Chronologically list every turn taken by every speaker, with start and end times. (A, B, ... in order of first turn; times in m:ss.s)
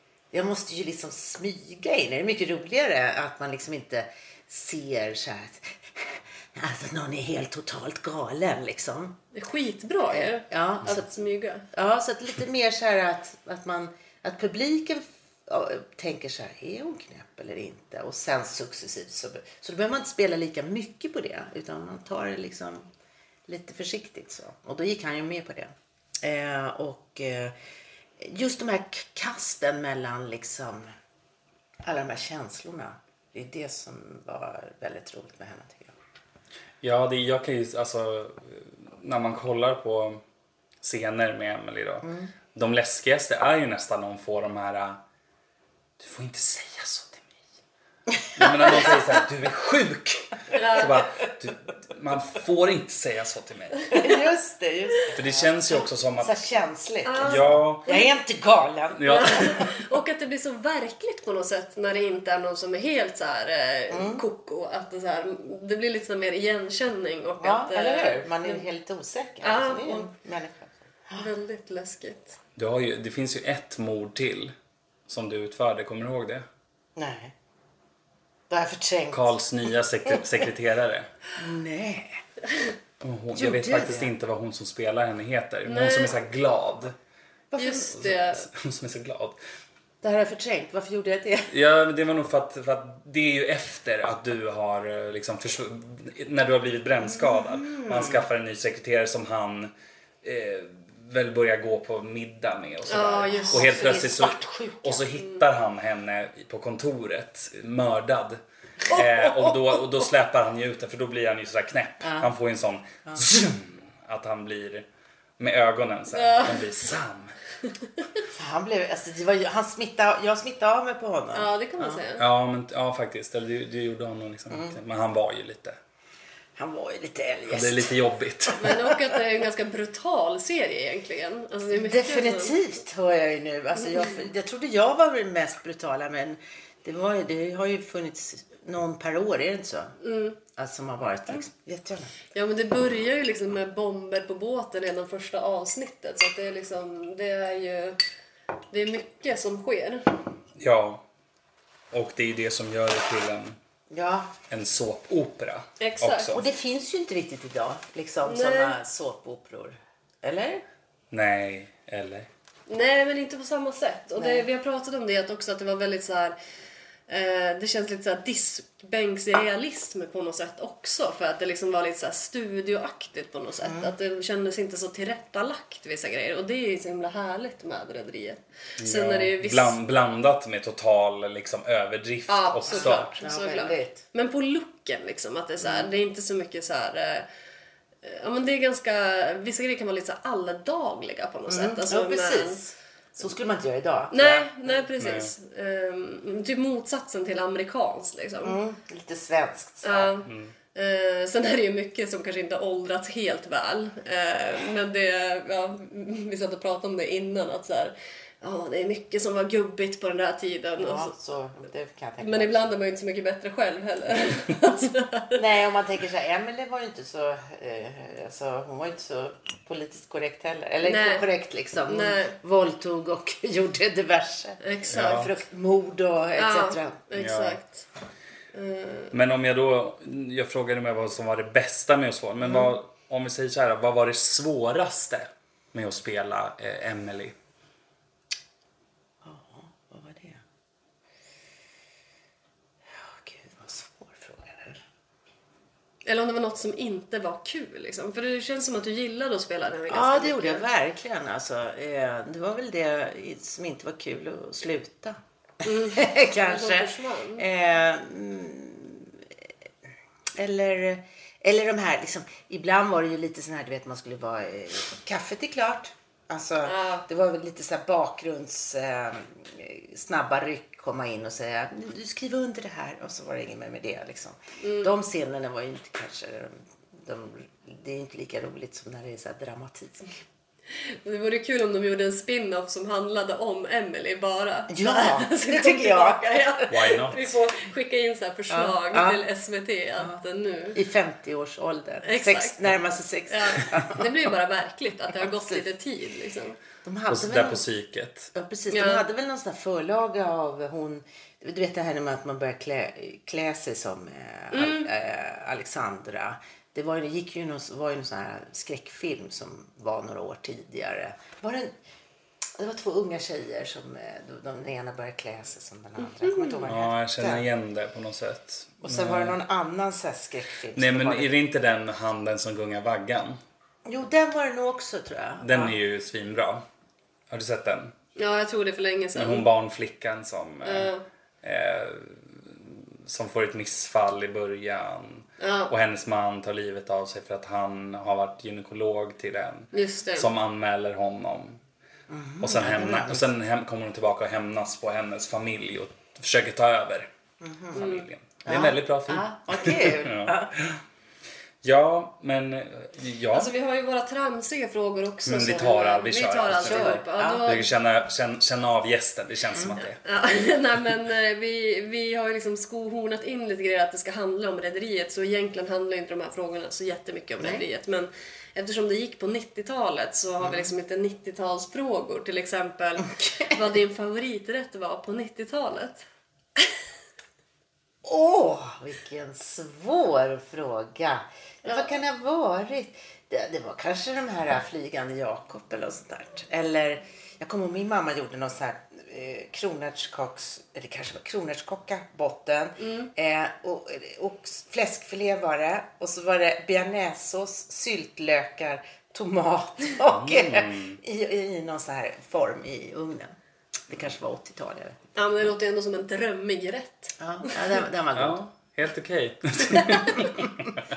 0:00.3-0:09.2 A
0:09.3-0:11.7 B
0:10.1-0:11.1 A
0:11.7-0:22.9 A
0:23.5-0:27.6 A
0:28.2-0:30.9 A
0:31.8-0:36.0 A
0:36.8-0:40.2 C
0:40.8-0:45.0 C
0:42.0-0:42.3 A
0:46.0-0:47.4 C
0:48.2-0:49.1 A
0:48.4-0:53.9 C
0:50.6-0:51.0 B
0:53.9-0:59.7 A
0:55.1-0:56.4 C
0:57.0-0:58.1 B
0:57.2-0:57.9 C
0:59.0-0:59.6 C
0:59.1-1:08.6 B
1:03.9-1:04.2 A
1:07.4-1:11.3 A
1:09.4-1:10.1 B
1:11.2-1:12.4 B
1:12.6-1:14.5 C
1:15.1-1:16.5 C
1:17.0-1:17.3 A
1:18.5-1:19.3 A
1:19.1-1:21.1 C
1:21.4-1:22.2 A
1:23.0-1:27.0 C
1:23.3-1:24.1 A
1:25.7-1:26.2 B
1:27.5-1:28.0 A
1:27.6-1:28.5 B
1:28.0-1:29.4 C
1:30.0-1:31.6 A
1:31.5-1:39.7 C
1:37.1-1:38.2 A
1:40.2-1:54.9 C
1:42.9-1:44.1 B
1:43.3-1:45.0 A
1:52.0-1:52.3 A
1:55.4-1:57.4 C
1:56.1-1:56.8 B
1:58.4-2:02.0 A
2:01.4-2:02.3 B
2:02.2-2:05.8 C
2:04.5-2:04.8 A
2:06.6-2:08.0 A
2:07.5-2:08.8 C
2:08.6-2:12.6 B
2:08.6-2:09.0 A
2:11.7-2:20.0 A
2:20.0-2:20.4 B
2:20.5-2:22.1 A
2:22.3-2:28.0 B
2:28.7-2:30.1 B
2:30.6-2:31.0 C
2:31.9-2:33.6 C
2:33.9-2:34.3 A
2:34.5-2:36.4 C
2:35.8-2:36.3 B
2:36.3-2:40.6 A
2:38.2-2:38.8 B
2:41.1-2:42.3 C
2:42.7-2:46.4 B
2:44.2-2:44.4 A
2:47.1-2:59.8 B
2:53.6-2:53.9 A
2:58.8-3:03.1 C
3:02.3-3:07.3 B
3:02.7-3:04.0 A
3:05.6-3:05.9 A
3:08.0-3:12.6 B
3:11.5-3:14.9 A
3:14.1-3:18.6 B
3:15.0-3:15.3 C
3:18.4-3:20.2 A
3:19.8-3:31.1 B
3:20.3-3:20.5 C
3:30.8-3:32.7 A
3:32.2-3:35.4 B
3:35.3-3:47.0 A
3:40.8-3:41.3 B
3:41.9-3:42.4 B
3:44.6-3:45.3 B
3:44.9-3:45.3 C
3:46.4-3:47.9 B
3:47.1-3:47.6 C
3:48.5-3:49.1 B
3:49.1-3:57.4 C
3:59.2-4:00.4 A
4:02.9-4:04.8 A
4:06.0-4:10.6 B
4:09.9-4:19.5 A
4:15.6-4:17.4 B
4:20.4-4:40.1 A
4:26.6-4:27.0 B
4:34.6-4:34.9 B
4:40.8-4:50.8 B
4:44.7-4:46.7 A
4:46.7-4:47.3 C
4:48.5-4:49.2 A
4:50.7-4:54.2 A
4:52.0-4:52.6 B
4:53.3-4:56.6 B
4:55.2-4:55.6 A
4:56.8-4:57.6 A
4:57.1-4:58.3 C
4:58.3-5:11.7 A
4:58.7-4:59.0 B
5:04.5-5:04.9 B
5:12.6-5:17.4 A
5:16.2-5:16.7 B
5:16.7-5:19.4 C
5:18.8-5:21.3 A
5:20.8-5:23.4 C
5:23.9-5:25.8 A
5:25.4-5:26.6 C
5:27.3-5:28.0 C
5:28.2-5:29.5 B
5:29.1-5:30.9 C
5:30.6-5:31.0 B
5:31.4-5:41.6 C
5:35.4-5:35.7 B
5:39.7-5:40.3 B
5:42.1-5:43.3 A
5:42.4-5:47.1 C
5:47.4-5:47.8 A
5:47.8-5:48.1 B
5:47.8-5:50.8 C
5:48.4-5:50.5 A
5:51.6-5:53.5 C
5:53.3-5:57.7 B
5:55.3-6:00.0 C
5:56.5-5:57.5 A
6:00.0-6:16.0 B
6:10.4-6:10.7 A
6:13.2-6:13.6 A
6:18.0-6:43.4 A
6:32.8-6:33.1 B
6:40.1-6:41.0 C
6:43.9-6:45.2 A
6:45.2-6:47.8 B
6:47.2-6:48.4 A
6:48.2-6:50.8 C
6:50.1-6:50.5 A